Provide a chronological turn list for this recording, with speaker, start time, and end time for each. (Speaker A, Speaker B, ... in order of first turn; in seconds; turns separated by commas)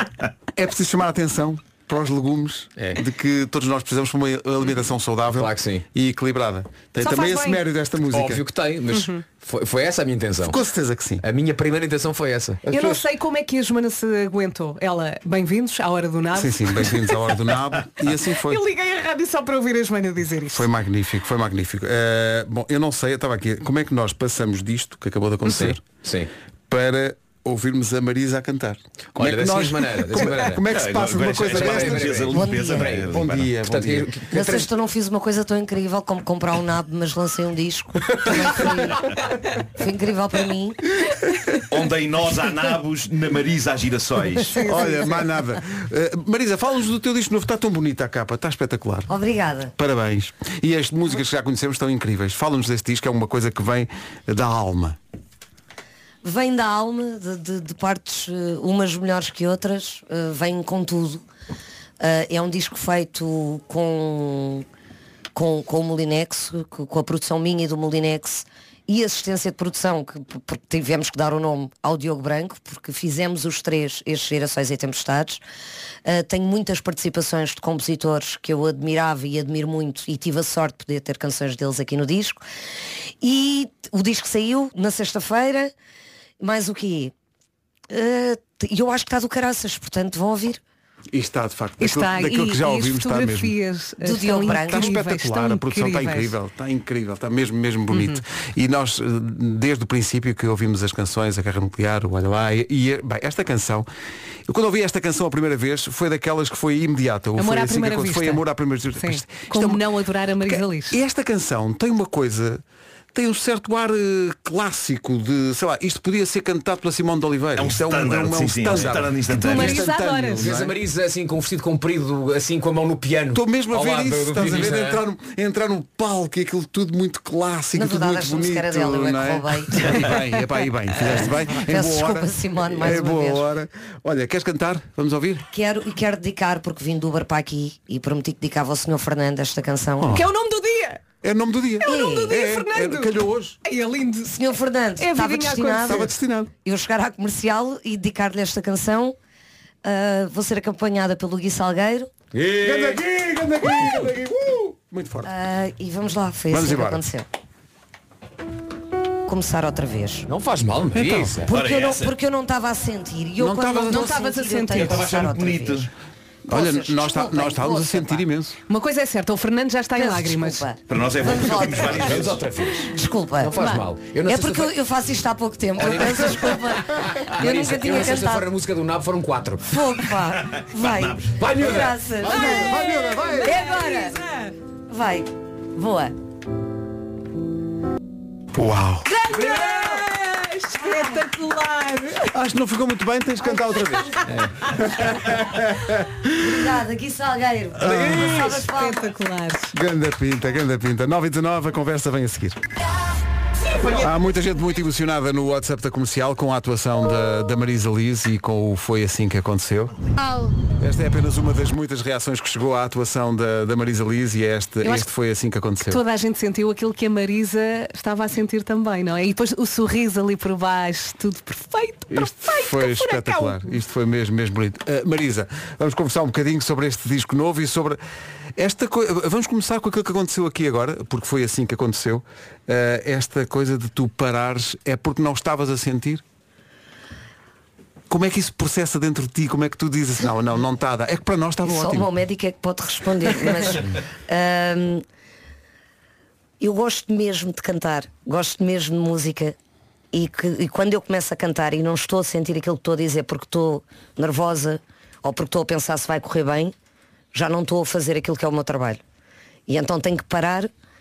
Speaker A: 0.6-8.4, Speaker B: 2.8-3.0, Speaker B: 5.3-5.8, Speaker C: 7.0-7.6, Speaker B: 8.1-10.6, Speaker C: 8.9-9.2, Speaker A: 10.4-11.2, Speaker B: 11.2-12.7, Speaker C: 12.7-17.3, Speaker A: 12.7-13.0, Speaker A: 16.3-18.6, Speaker C: 18.4-20.7, Speaker A: 20.5-25.8, Speaker B: 25.4-26.3, Speaker A: 26.7-32.5, Speaker B: 29.2-30.8, Speaker D: 30.7-33.5, Speaker B: 31.4-34.5, Speaker E: 32.3-32.9, Speaker A: 33.0-34.6, Speaker E: 34.3-39.1, Speaker E: 39.8-40.8, Speaker D: 41.7-44.6, Speaker C: 44.5-45.0, Speaker A: 44.6-49.1, Speaker E: 49.1-49.7, Speaker A: 49.8-55.0, Speaker E: 56.2-61.2, Speaker E: 62.0-64.6, Speaker E: 65.3-75.4, Speaker E: 76.0-82.4, Speaker E: 83.2-85.7, Speaker E: 86.4-87.1, Speaker E: 87.9-90.6, Speaker A: 91.1-93.5, Speaker C: 91.8-96.3, Speaker E: 94.0-95.0, Speaker A: 94.5-103.9, Speaker C: 97.9-98.2, Speaker A: 104.5-109.8, Speaker C: 107.4-108.4, Speaker C: 109.0-111.0, Speaker A: 110.4-112.6, Speaker A: 113.1-120.8, Speaker D: 117.6-119.8, Speaker C: 119.3-120.5, Speaker B: 120.4-125.0, Speaker A: 123.3-135.4, Speaker E: 127.7-130.1, Speaker E: 131.1-133.5, Speaker E: 135.5-140.2, Speaker A: 140.0-140.2, Speaker C: 140.1-141.0, Speaker A: 141.2-143.6, Speaker C: 141.8-144.3, Speaker E: 141.8-142.4, Speaker E: 144.2-149.1, Speaker C: 145.0-146.1, Speaker A: 145.8-146.5, Speaker E: 149.8-152.1, Speaker B: 152.3-153.0, Speaker A: 152.6-155.3, Speaker B: 153.8-154.0, Speaker E: 155.2-157.3, Speaker A: 156.5-157.0, Speaker E: 159.2-160.3, Speaker B: 160.3-161.5, Speaker A: 160.9-161.5, Speaker E: 161.5-165.9, Speaker D: 161.5-162.2, Speaker A: 163.4-164.1, Speaker C: 163.8-165.0, Speaker D: 164.7-165.9, Speaker A: 166.5-168.6, Speaker E: 166.5-168.3, Speaker C: 168.7-170.6, Speaker E: 169.9-172.3, Speaker D: 170.9-172.5, Speaker B: 171.8-174.7, Speaker E: 172.8-173.6, Speaker C: 173.6-173.8, Speaker E: 174.2-178.5, Speaker B: 175.8-179.7, Speaker E: 179.7-184.2, Speaker D: 180.4-181.4, Speaker B: 181.3-181.9, Speaker A: 182.2-183.5, Speaker C: 182.3-184.5, Speaker E: 184.9-186.1, Speaker A: 188.5-189.1, Speaker C: 189.1-192.3, Speaker A: 192.3-196.0, Speaker E: 196.3-199.1, Speaker A: 197.8-198.3, Speaker B: 197.8-198.5, Speaker C: 198.2-199.7, Speaker A: 199.7-202.6, Speaker A: 203.9-209.9, Speaker A: 210.8-216.0, Speaker C: 214.8-215.1, Speaker C: 215.9-223.7, Speaker A: 222.1-228.0, Speaker A: 228.6-236.2, Speaker A: 238.1-242.1, Speaker E: 241.6-245.0, Speaker E: 246.6-249.5, Speaker E: 250.1-256.7, Speaker E: 257.3-259.0, Speaker E: 259.7-260.7